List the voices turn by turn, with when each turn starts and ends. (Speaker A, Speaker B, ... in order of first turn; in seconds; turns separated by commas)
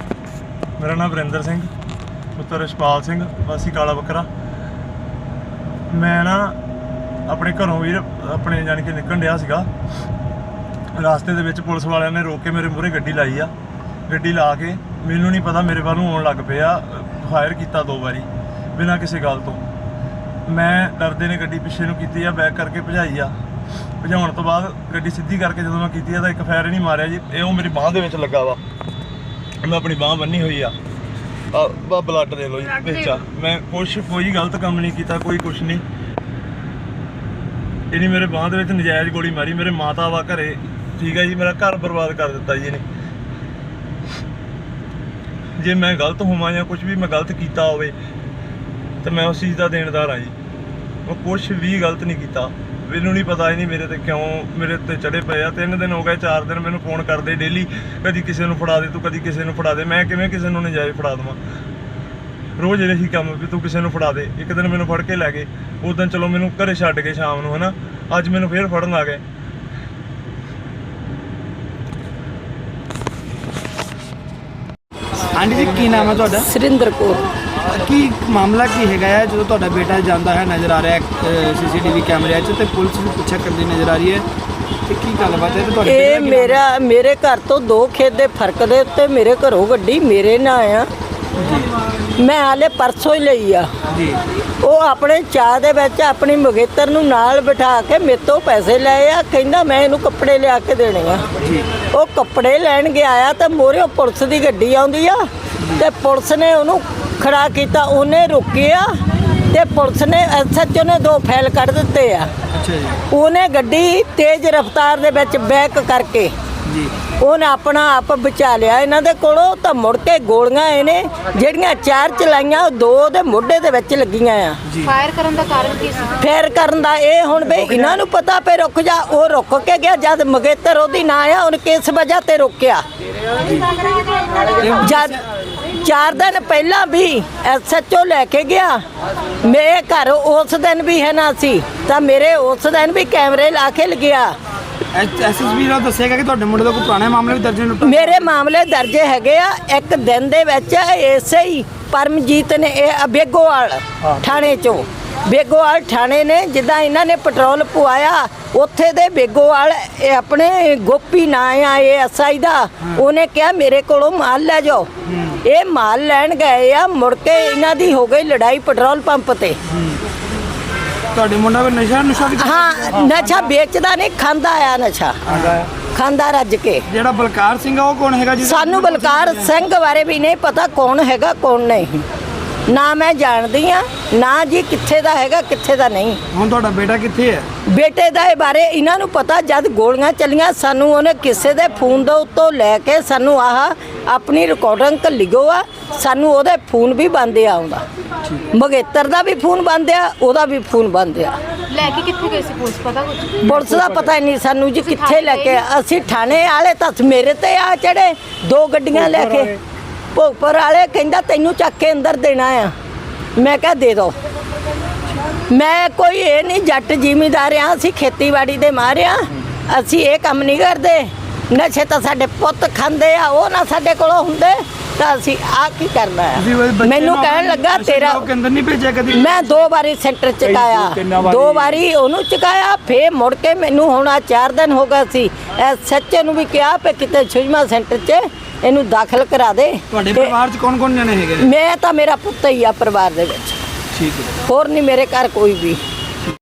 Speaker A: 0.8-1.7, Speaker A: 2.3-4.3, Speaker A: 5.9-6.6, Speaker A: 7.3-9.7, Speaker A: 10.9-13.5, Speaker A: 14.1-19.6, Speaker A: 20.4-23.3, Speaker A: 24.0-28.6, Speaker A: 29.6-30.8, Speaker A: 31.5-35.8, Speaker A: 37.9-42.8, Speaker A: 45.6-47.9, Speaker A: 49.0-50.3, Speaker A: 51.0-61.4, Speaker A: 62.6-69.2, Speaker B: 75.3-76.5, Speaker C: 76.4-77.2, Speaker B: 77.7-84.2, Speaker B: 84.8-86.6, Speaker C: 85.8-90.9, Speaker B: 91.4-91.7, Speaker C: 92.2-93.7, Speaker B: 93.9-94.2, Speaker C: 94.6-101.2, Speaker B: 101.4-101.7, Speaker C: 101.9-108.9, Speaker C: 109.5-112.3, Speaker B: 112.5-113.0, Speaker C: 113.1-116.3, Speaker B: 116.7-116.9, Speaker C: 117.2-124.6, Speaker B: 124.7-124.9, Speaker D: 124.8-126.2, Speaker C: 126.2-132.8, Speaker B: 133.4-133.8, Speaker B: 134.5-135.2, Speaker C: 134.8-135.2, Speaker C: 135.8-138.8, Speaker C: 139.4-144.3, Speaker B: 144.9-148.2, Speaker C: 147.8-164.9, Speaker B: 165.1-165.4, Speaker C: 165.4-169.6, Speaker B: 169.7-170.0, Speaker B: 171.1-173.3, Speaker C: 172.4-175.2, Speaker B: 175.2-175.7, Speaker C: 175.9-176.8, Speaker B: 176.9-179.5, Speaker C: 178.4-182.0, Speaker C: 182.7-186.2, Speaker B: 186.3-187.5, Speaker C: 187.7-197.8, Speaker C: 198.5-201.3, Speaker D: 201.7-203.5, Speaker C: 203.4-209.6, Speaker B: 203.4-204.0, Speaker D: 204.8-205.6, Speaker B: 209.1-209.4, Speaker C: 210.1-212.7, Speaker C: 213.4-214.2, Speaker C: 215.5-228.2, Speaker B: 226.3-229.5, Speaker C: 229.1-240.3, Speaker B: 230.8-231.5, Speaker B: 239.9-241.5, Speaker C: 241.4-243.6, Speaker B: 243.9-244.4, Speaker C: 244.4-245.8